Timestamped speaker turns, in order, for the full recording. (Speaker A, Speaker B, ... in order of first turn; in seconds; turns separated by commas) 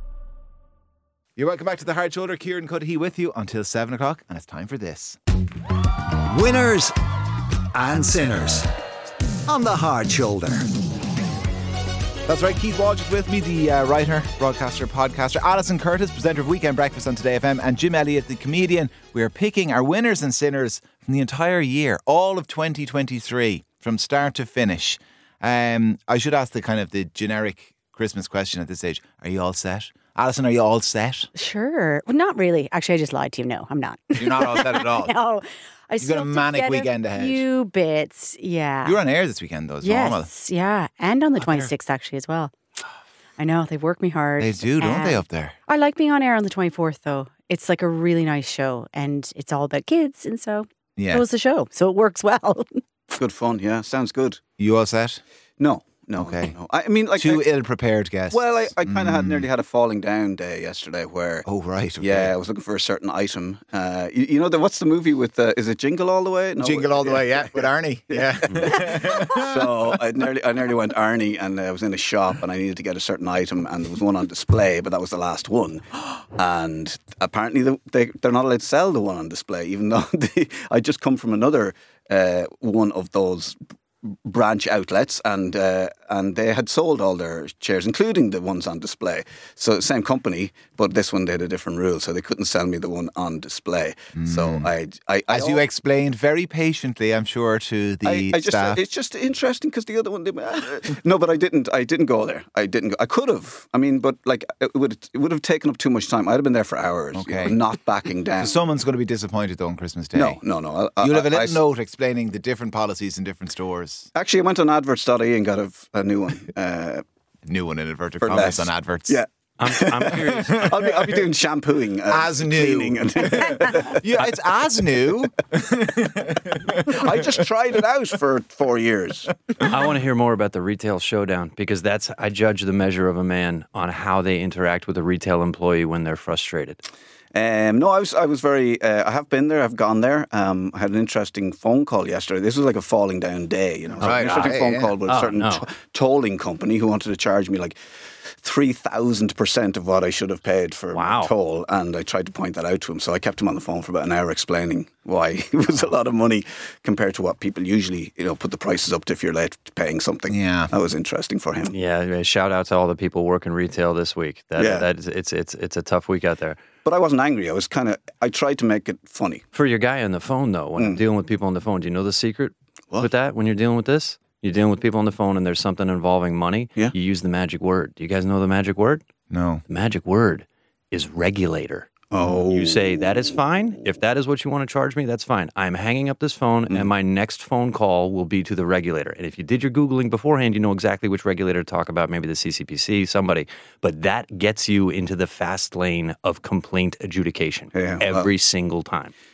Speaker A: 1.4-5.2, Speaker B: 6.3-7.0, Speaker B: 7.7-8.7, Speaker B: 9.5-10.7, Speaker A: 12.3-31.3, Speaker C: 31.3-39.0, Speaker A: 34.2-35.1, Speaker A: 36.0-37.4, Speaker A: 38.8-40.3, Speaker C: 39.8-42.5, Speaker A: 41.4-41.7, Speaker C: 43.4-52.7, Speaker A: 44.4-45.5, Speaker A: 51.0-51.2, Speaker D: 53.1-54.4, Speaker A: 54.6-55.2, Speaker D: 55.6-57.5, Speaker A: 56.2-56.5, Speaker A: 57.1-59.5, Speaker D: 58.3-61.5, Speaker A: 61.5-62.3, Speaker D: 62.0-95.6, Speaker A: 66.6-70.0, Speaker A: 94.2-94.7, Speaker A: 95.3-98.8, Speaker D: 98.0-108.5, Speaker A: 107.1-107.6, Speaker A: 108.4-110.4, Speaker D: 110.1-111.6, Speaker A: 111.0-114.1, Speaker D: 114.1-117.0, Speaker A: 117.5-119.2, Speaker D: 118.2-124.0, Speaker E: 119.6-120.8, Speaker A: 120.3-121.3, Speaker A: 122.1-127.5, Speaker D: 126.8-129.3, Speaker E: 129.6-136.8, Speaker D: 137.3-147.8, Speaker A: 144.0-144.9, Speaker E: 144.0-145.7, Speaker D: 148.3-161.7, Speaker E: 150.9-151.3, Speaker A: 160.3-160.7, Speaker E: 161.7-166.6, Speaker D: 164.6-164.9, Speaker D: 166.8-169.4, Speaker E: 169.5-179.0, Speaker A: 179.3-179.6, Speaker E: 179.7-199.1, Speaker D: 182.1-183.0, Speaker D: 197.7-198.3